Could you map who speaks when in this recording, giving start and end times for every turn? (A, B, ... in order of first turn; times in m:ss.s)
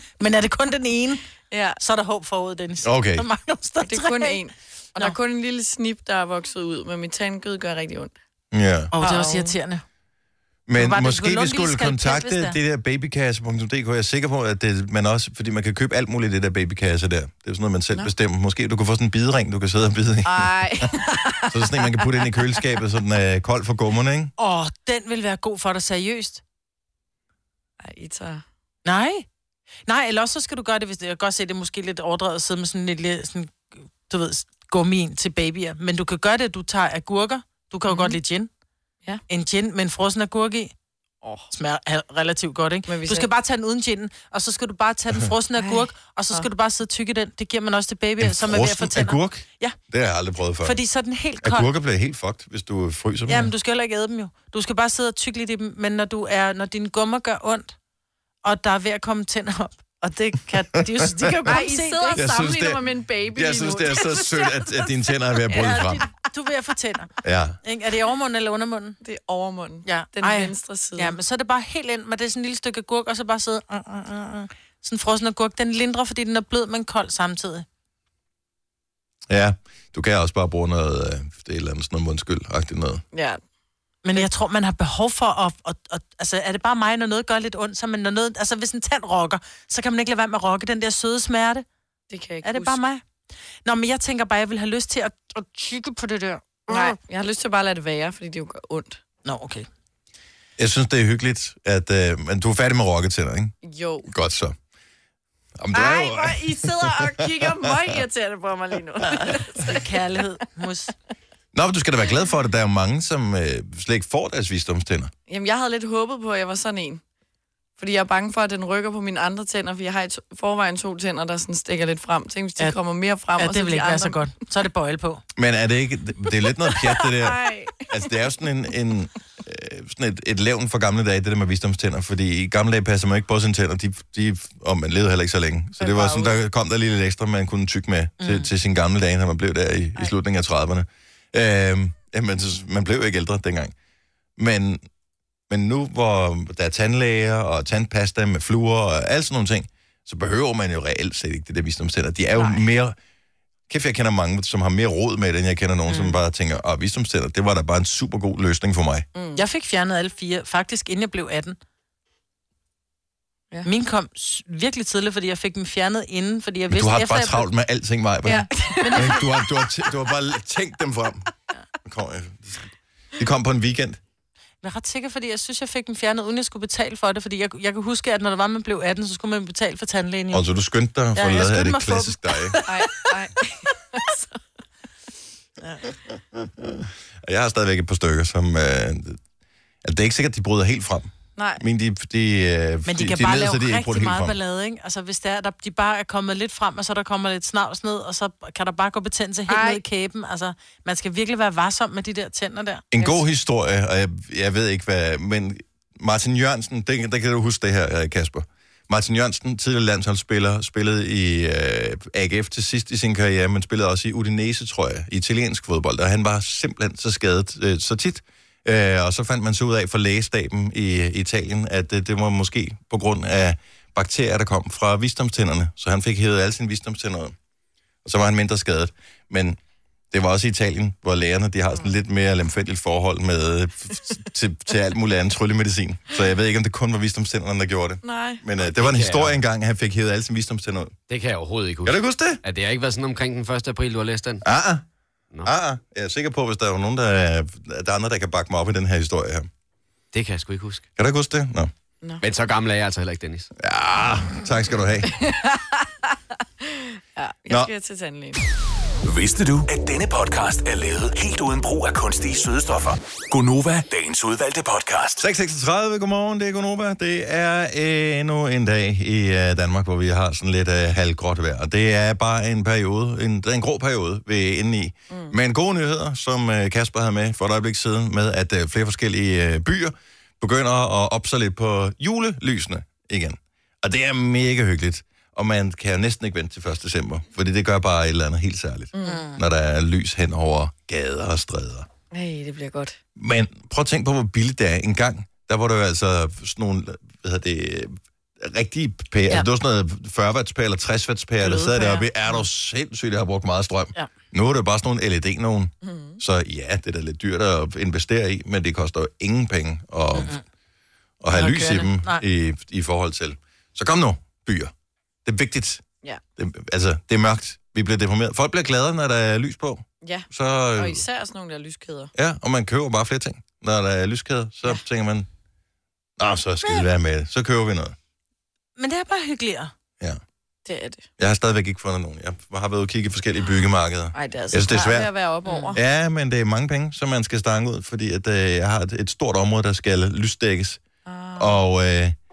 0:00.2-0:01.2 A
0:01.5-0:01.8 B
0:01.8-0:04.4 A
0:02.8-0:03.2 C
0:03.8-0:08.1 B
0:08.5-0:08.9 C
0:08.9-0:09.8 A
0:09.0-0:09.6 B
0:10.7-0:20.6 C
0:10.8-0:12.6 A
0:20.2-0:22.6 B
0:21.5-0:24.3 C
0:24.4-0:26.4 A
0:27.8-0:28.4 B
0:28.8-0:29.2 A
0:29.9-0:38.5 A
0:37.9-0:38.2 B
0:39.3-0:40.7 A
0:41.2-0:41.5 B
0:41.5-0:49.8 A
0:42.8-0:43.3 B
0:45.6-0:46.5 B
0:48.2-0:50.8 C
0:50.6-0:51.7 A
0:51.4-0:53.5 C
0:53.3-0:57.7 A
0:58.4-1:02.3 A
1:00.8-1:01.6 C
1:01.4-1:04.8 B
1:02.1-1:06.0 C
1:05.5-1:07.1 A
1:07.2-1:07.6 C
1:07.6-1:09.0 A
1:09.0-1:11.2 B
1:09.8-1:17.6 A
1:19.3-1:23.0 C
1:23.1-1:23.4 B
1:24.0-1:31.6 A
1:32.1-1:32.8 B
1:32.4-1:33.0 A
1:33.6-1:36.9 A
1:36.7-1:39.0 B
1:39.2-1:39.7 A
1:40.6-1:43.5 C
1:43.6-1:44.1 B
1:44.1-1:44.6 C
1:45.6-1:48.0 C
1:45.7-1:49.8 B
1:49.1-1:50.9 A
1:51.5-1:55.1 C
1:55.3-1:57.0 B
1:57.8-2:04.2 B
2:03.4-2:05.2 A
2:05.3-2:23.7 C
2:07.0-2:07.8 B
2:15.8-2:16.3 A
2:18.2-2:18.5 A
2:24.4-2:24.8 C
2:25.5-2:33.0 C
2:32.4-2:32.6 B
2:33.7-2:39.0 C
2:35.9-2:36.2 A
2:39.1-2:39.4 B
2:39.4-2:41.6 A
2:43.6-2:47.5 A
2:46.7-2:51.3 C
2:48.2-2:49.3 B
2:48.8-2:49.3 A
2:51.8-2:54.0 C
2:54.6-3:00.5 A
3:00.3-3:02.6 C
3:01.1-3:03.1 A
3:02.7-3:04.4 B
3:06.3-3:09.2 C
3:09.8-3:14.3 C
3:11.4-3:11.6 B
3:12.8-3:23.2 A
3:19.5-3:19.8 B
3:22.9-3:47.3 C
3:48.0-3:49.6 C
3:50.1-4:00.9 C
3:58.0-3:58.4 B
3:58.6-3:59.4 D
4:01.1-4:04.4 D
4:01.8-4:02.4 C
4:04.4-4:04.8 C
4:05.4-4:09.5 C
4:10.1-4:10.8 D
4:11.0-4:11.7 C
4:12.2-4:13.5 D
4:13.6-4:15.1 C
4:15.0-4:15.9 B
4:16.6-4:18.4 B
4:19.0-4:25.2 E
4:25.2-4:51.9 C
4:48.9-4:49.2 B
4:49.0-4:49.4 A
4:52.1-4:53.0 B
4:53.2-5:10.4 C
5:01.4-5:02.0 A
5:05.8-5:06.2 B
5:10.1-5:10.4 A
5:11.2-5:14.7 C
5:11.3-5:12.2 A
5:15.2-5:15.8 C
5:16.4-5:21.0 C
5:20.0-5:22.1 B
5:22.1-5:25.3 C
5:26.2-5:27.9 C
5:28.8-5:29.7 A
5:30.6-5:31.1 B
5:31.2-5:35.1 C
5:34.1-5:35.8 B
5:35.4-5:35.8 A
5:35.7-5:40.8 C
5:41.0-5:41.6 B
5:41.4-5:42.2 C